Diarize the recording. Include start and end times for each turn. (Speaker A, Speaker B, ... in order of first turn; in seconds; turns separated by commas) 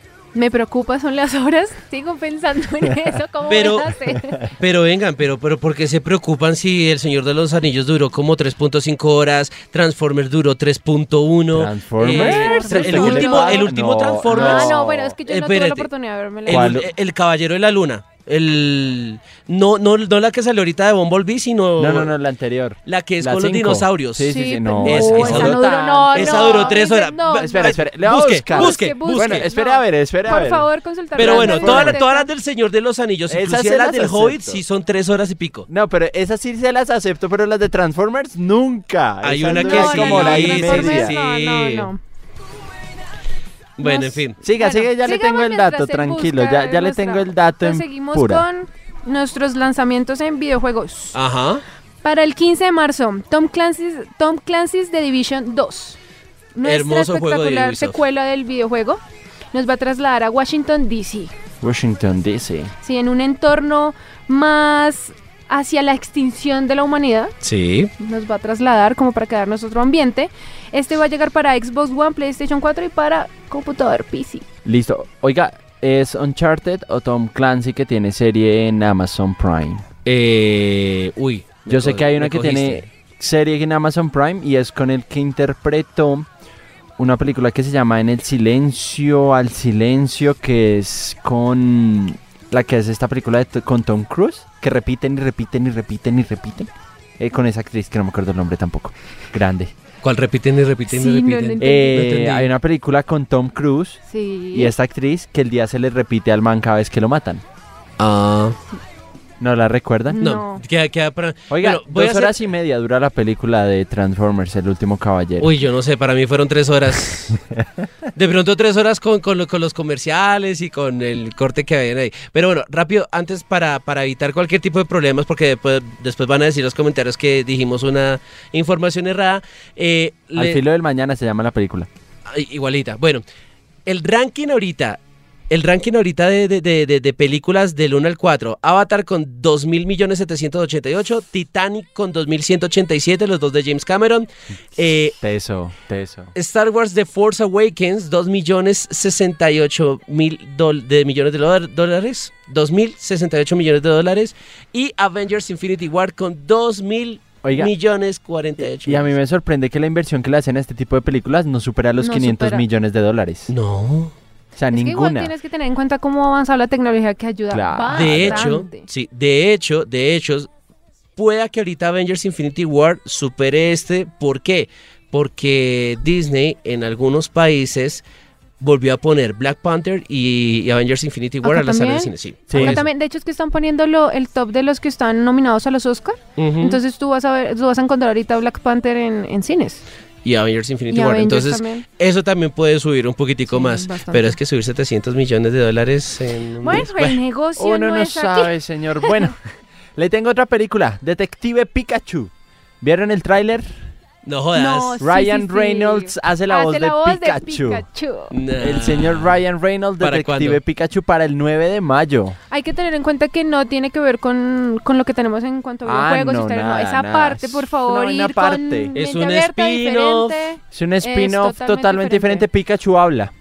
Speaker A: 0.3-4.5, Speaker B: 3.5-4.0, Speaker B: 4.5-15.9, Speaker C: 11.5-15.1, Speaker A: 12.0-13.7, Speaker A: 14.2-16.8, Speaker B: 16.4-22.1, Speaker C: 16.5-16.9, Speaker C: 21.8-32.0, Speaker B: 22.9-29.4, Speaker A: 24.3-27.8, Speaker A: 28.5-32.3, Speaker B: 31.1-35.7, Speaker C: 33.3-34.6, Speaker C: 35.7-41.1, Speaker B: 39.2-41.9, Speaker A: 39.5-42.0, Speaker B: 43.8-44.4, Speaker A: 43.8-51.2, Speaker C: 44.4-48.4, Speaker B: 51.1-51.6, Speaker A: 52.0-56.0, Speaker A: 56.5-59.0, Speaker B: 56.6-58.0, Speaker A: 59.5-61.3, Speaker C: 61.6-62.7, Speaker A: 62.8-67.3, Speaker B: 67.4-67.9, Speaker A: 68.0-74.4, Speaker C: 74.6-79.8, Speaker B: 80.0-82.9, Speaker C: 81.7-86.3, Speaker C: 87.0-99.7, Speaker B: 100.0-102.5, Speaker A: 100.9-102.1, Speaker C: 101.6-104.0, Speaker A: 104.1-104.7, Speaker C: 104.5-107.4, Speaker B: 108.0-108.6, Speaker C: 109.4-110.3, Speaker A: 110.1-110.6, Speaker B: 110.2-112.4, Speaker C: 111.5-115.5, Speaker B: 115.4-117.4, Speaker B: 118.1-130.6, Speaker C: 130.3-131.9, Speaker B: 132.3-133.2, Speaker B: 133.8-135.0, Speaker B: 135.5-145.2, Speaker C: 145.2-146.3, Speaker B: 146.3-159.1, Speaker C: 157.4-157.7, Speaker C: 158.8-163.5, Speaker A: 162.0-162.6, Speaker B: 163.5-164.1, Speaker C: 164.6-165.3, Speaker A: 164.7-168.9, Speaker C: 167.5-168.6, Speaker B: 167.9-170.5, Speaker B: 171.2-178.0, Speaker B: 178.6-182.8, Speaker A: 181.4-189.8, Speaker C: 182.5-182.8, Speaker B: 186.4-186.8, Speaker B: 190.2-197.2, Speaker A: 190.9-191.8, Speaker A: 193.5-194.4, Speaker A: 196.6-199.3, Speaker C: 197.6-199.4, Speaker C: 199.9-203.8, Speaker B: 204.2-205.0, Speaker A: 204.5-208.3, Speaker C: 205.0-207.8, Speaker B: 208.3-209.3, Speaker C: 208.6-212.4, Speaker B: 210.0-210.6, Speaker A: 212.5-222.4, Speaker C: 215.8-218.9, Speaker B: 218.9-220.4, Speaker C: 220.7-223.3